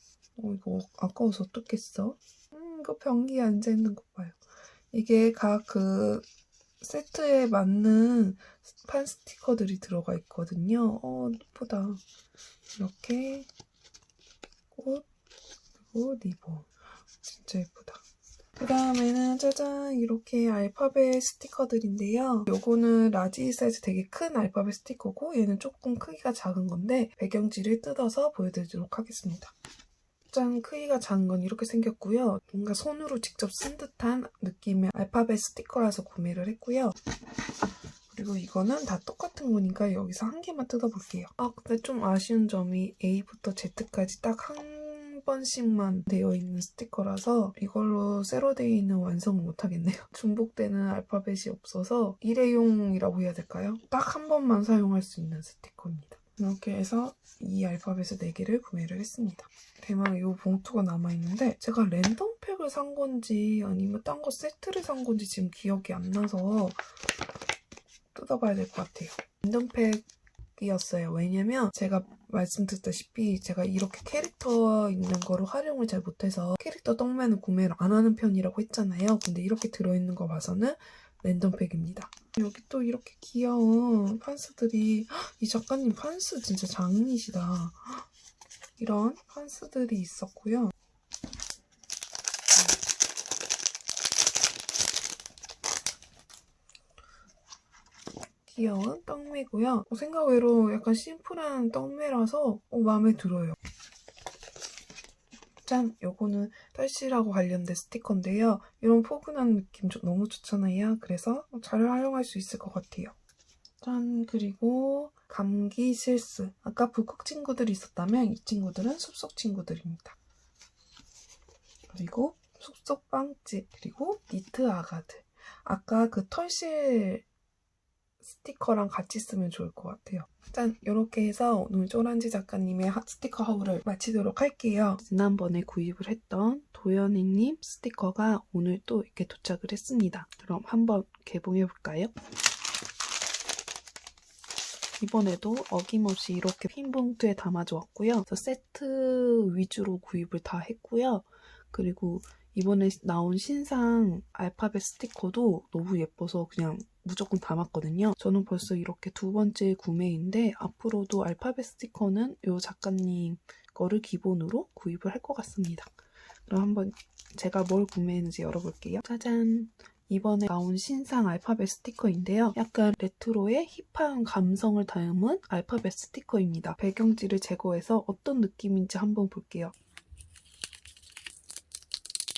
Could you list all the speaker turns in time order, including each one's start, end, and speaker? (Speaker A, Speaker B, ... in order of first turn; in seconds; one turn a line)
Speaker A: 0.4-4.4
Speaker A: 4.9-6.2
Speaker A: 6.8-12.0
Speaker A: 12.8-13.5
Speaker A: 14.7-15.1
Speaker A: 15.9-16.7
Speaker A: 17.2-18.0
Speaker A: 18.6-29.6
Speaker A: 30.3-37.0
Speaker A: 38.1-66.8
Speaker A: 68.1-88.0
Speaker A: 88.8-90.7
Speaker A: 98.5-103.6
Speaker A: 105.6-113.1
Speaker A: 113.8-120.2
Speaker A: 121.9-127.2
Speaker A: 128.2-142.1
Speaker A: 145.0-165.9
Speaker A: 166.5-179.7